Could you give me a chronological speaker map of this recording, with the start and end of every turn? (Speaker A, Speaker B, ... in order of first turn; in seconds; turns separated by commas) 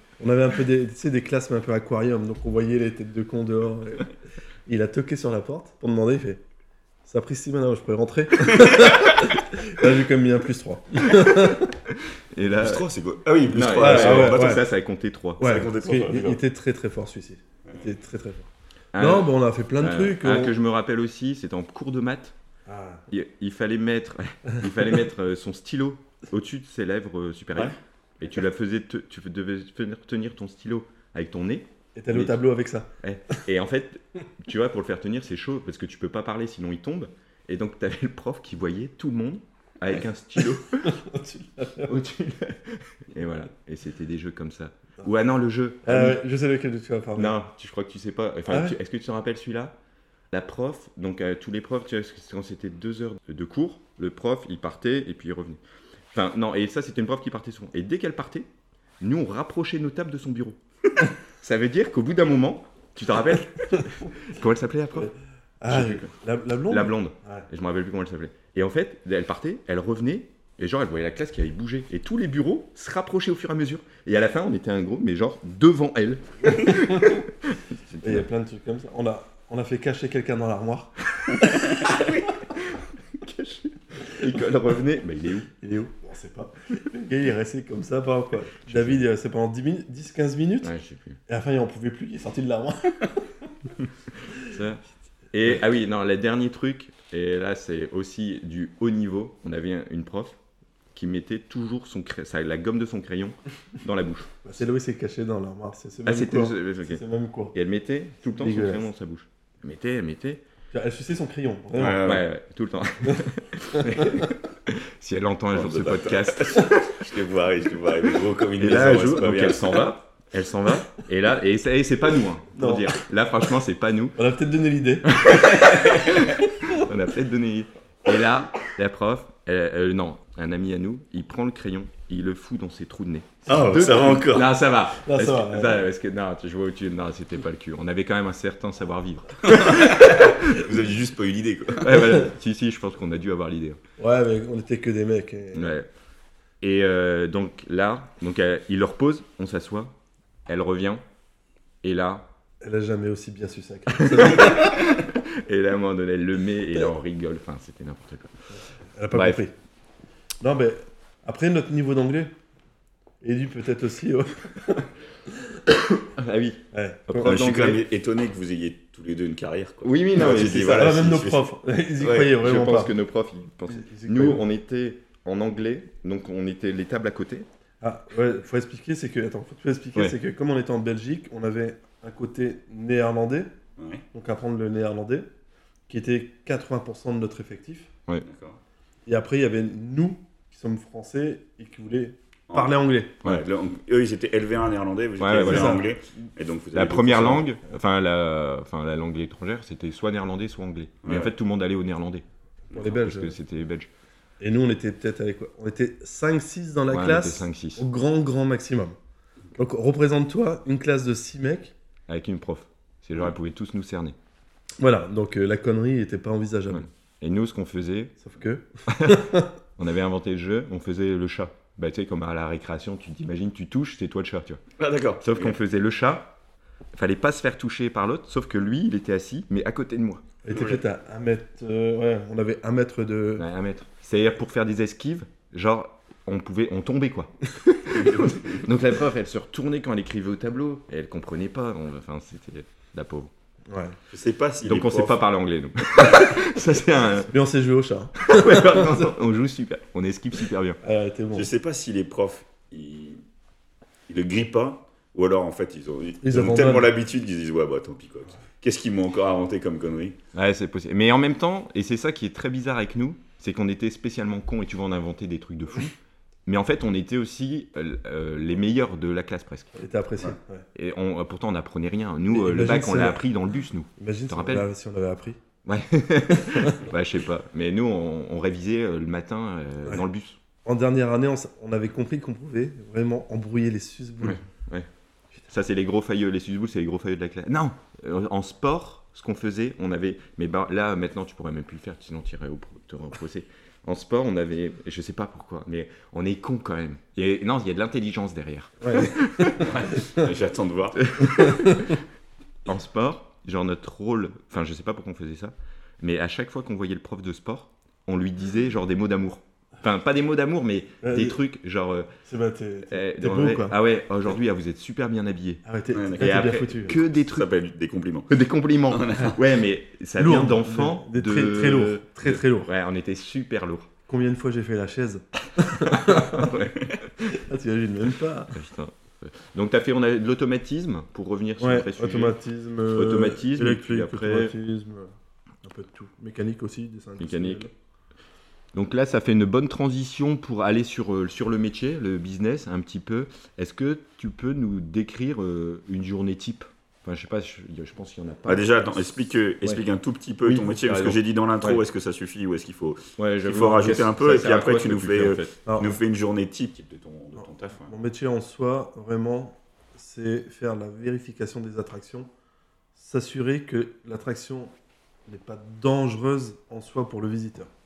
Speaker A: 0.2-4.1, Speaker A: 4.7-6.4, Speaker A: 7.1-11.8, Speaker B: 8.5-9.2, Speaker C: 11.9-12.9, Speaker B: 12.6-14.6, Speaker C: 13.5-15.7, Speaker A: 13.7-14.7, Speaker A: 15.4-20.5, Speaker B: 15.4-16.4, Speaker C: 18.9-22.4, Speaker A: 22.7-23.1, Speaker C: 23.1-32.4, Speaker A: 31.9-33.4, Speaker C: 33.0-41.0, Speaker A: 40.8-42.0, Speaker C: 41.9-46.2, Speaker A: 45.8-47.4, Speaker C: 47.1-49.8, Speaker A: 48.5-48.8, Speaker C: 50.3-55.6, Speaker C: 56.1-58.5, Speaker C: 59.0-65.1, Speaker A: 65.0-67.5, Speaker C: 65.7-66.1, Speaker C: 66.7-78.2, Speaker A: 76.6-77.2, Speaker A: 78.0-81.9, Speaker B: 81.5-82.2, Speaker C: 81.8-85.5, Speaker A: 85.6-90.7, Speaker C: 88.7-89.0, Speaker C: 90.6-91.2, Speaker A: 91.3-93.5, Speaker C: 94.4-94.8, Speaker C: 95.3-100.4, Speaker C: 100.9-104.3, Speaker A: 104.4-107.5, Speaker C: 106.0-107.0, Speaker C: 107.5-110.4, Speaker A: 108.3-108.9, Speaker A: 110.7-112.0, Speaker B: 111.7-112.3, Speaker C: 112.0-117.0, Speaker A: 113.0-114.3, Speaker B: 115.5-119.9, Speaker C: 118.6-124.2, Speaker A: 122.5-123.0, Speaker A: 124.2-126.7, Speaker C: 125.1-140.7, Speaker B: 125.7-126.2, Speaker B: 133.5-134.5, Speaker A: 133.5-134.1, Speaker A: 135.0-135.9, Speaker B: 139.4-142.1, Speaker C: 141.8-143.8, Speaker A: 144.0-145.7, Speaker C: 145.5-145.9, Speaker C: 146.6-150.0, Speaker C: 150.5-151.0, Speaker C: 151.8-152.3, Speaker A: 152.6-154.9, Speaker C: 153.9-158.3, Speaker A: 158.9-159.5, Speaker C: 159.1-159.4, Speaker A: 160.4-162.3, Speaker A: 163.2-165.8, Speaker C: 166.2-167.8, Speaker A: 166.7-167.4, Speaker B: 167.2-171.4, Speaker C: 169.8-171.0, Speaker A: 170.2-172.9, Speaker B: 172.0-172.3, Speaker C: 172.4-177.5, Speaker A: 173.7-174.4, Speaker A: 177.8-183.5, Speaker B: 183.8-184.0, Speaker A: 184.1-185.3, Speaker A: 185.9-187.9, Speaker B: 188.2-188.6, Speaker A: 189.1-193.2, Speaker B: 192.5-197.5, Speaker C: 195.2-195.8, Speaker A: 195.4-195.9, Speaker C: 196.7-202.2, Speaker B: 201.0-201.3, Speaker A: 202.7-203.4, Speaker C: 202.8-203.9, Speaker A: 204.4-209.0, Speaker C: 206.9-207.8, Speaker A: 209.6-211.7, Speaker C: 212.1-214.2, Speaker A: 214.8-216.9, Speaker C: 216.7-218.2, Speaker A: 218.2-219.5, Speaker C: 218.9-219.3, Speaker C: 219.8-224.6, Speaker B: 224.8-225.6, Speaker C: 225.2-226.3, Speaker C: 226.9-230.2, Speaker A: 230.4-233.4, Speaker B: 230.5-230.8, Speaker C: 233.4-243.3, Speaker B: 237.9-238.7, Speaker A: 243.7-244.0, Speaker B: 244.1-245.2, Speaker C: 244.6-247.3, Speaker A: 247.3-249.1, Speaker C: 248.2-250.8, Speaker A: 250.8-251.5, Speaker B: 251.3-253.2, Speaker B: 254.1-260.2, Speaker A: 256.2-256.9, Speaker C: 260.3-265.9, Speaker C: 266.5-269.8, Speaker A: 269.8-270.7, Speaker C: 270.8-274.7, Speaker A: 272.3-273.2, Speaker A: 274.0-275.4, Speaker C: 275.6-280.4, Speaker A: 276.5-276.8, Speaker A: 280.6-284.4, Speaker C: 284.2-284.9, Speaker C: 285.5-299.7, Speaker A: 298.8-299.7, Speaker B: 299.6-301.1, Speaker C: 301.0-302.0, Speaker A: 301.3-302.0, Speaker C: 302.6-312.1, Speaker A: 311.0-311.4, Speaker A: 312.3-313.8, Speaker C: 312.9-315.6, Speaker A: 315.6-317.0, Speaker B: 315.9-316.5, Speaker C: 316.2-317.5, Speaker B: 317.1-318.3, Speaker C: 318.3-323.9, Speaker B: 318.9-319.4, Speaker A: 320.2-322.7, Speaker A: 324.1-326.6, Speaker C: 325.8-327.2, Speaker A: 327.2-328.6, Speaker C: 328.5-332.4, Speaker A: 331.6-337.7, Speaker C: 332.9-334.5, Speaker C: 337.2-337.6, Speaker C: 338.7-348.7, Speaker B: 348.4-357.9, Speaker C: 350.8-351.8, Speaker C: 353.2-355.5, Speaker A: 355.7-356.0, Speaker A: 357.4-362.3, Speaker A: 362.9-364.7, Speaker A: 365.3-367.7